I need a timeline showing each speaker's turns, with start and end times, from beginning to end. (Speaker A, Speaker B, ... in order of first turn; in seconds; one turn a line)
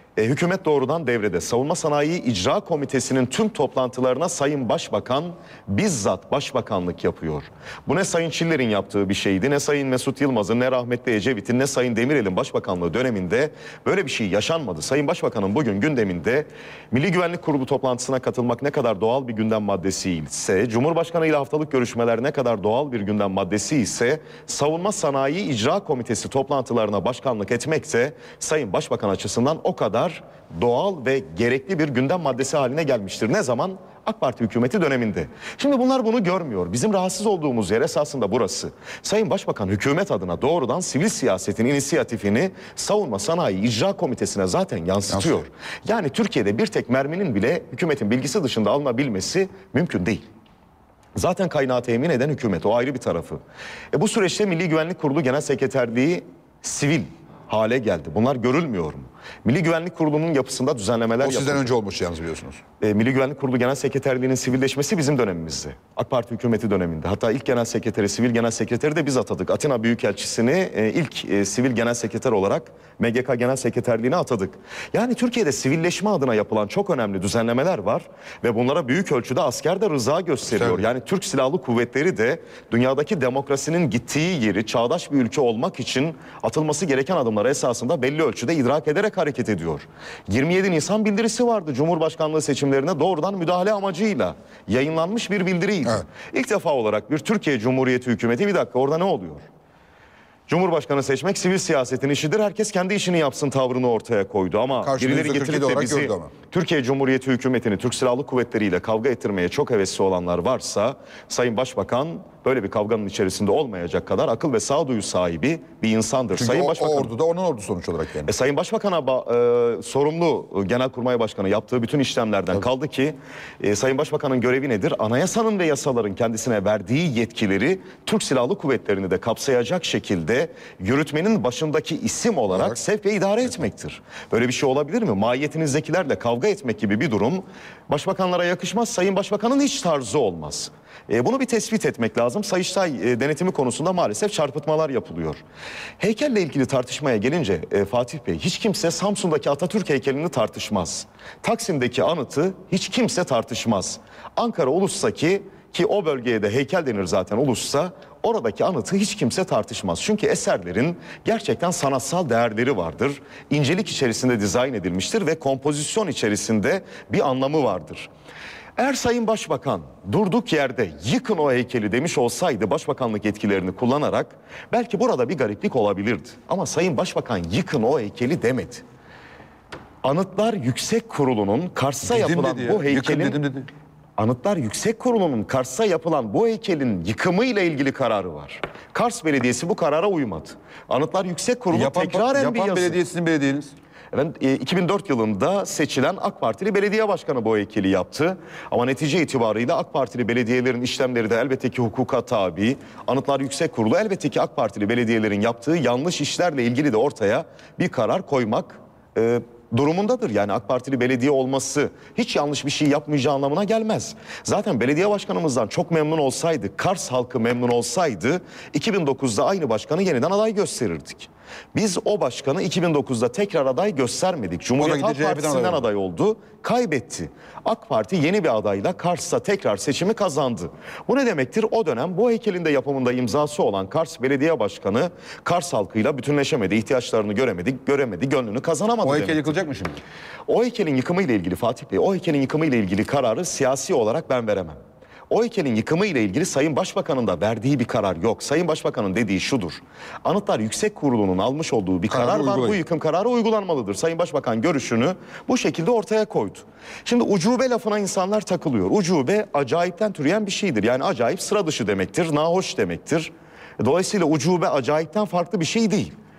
Speaker A: 0.2-50.3
Speaker A: 51.2-53.4
Speaker A: 53.9-61.7
Speaker B: 61.2-62.6
Speaker A: 62.8-99.5
Speaker B: 80.5-80.8
Speaker A: 100.5-117.1
Speaker B: 104.8-106.3
Speaker B: 116.3-118.3
Speaker A: 118.3-145.4
Speaker B: 132.5-132.8
Speaker A: 146.0-168.1
Speaker A: 168.8-178.8
Speaker A: 180.0-183.4
Speaker B: 182.0-183.7
Speaker A: 184.2-193.0
Speaker B: 191.7-193.7
Speaker A: 194.1-239.5
Speaker B: 224.8-225.9
Speaker B: 239.0-240.0
Speaker A: 240.5-244.8
Speaker A: 245.3-266.1
Speaker B: 252.1-252.8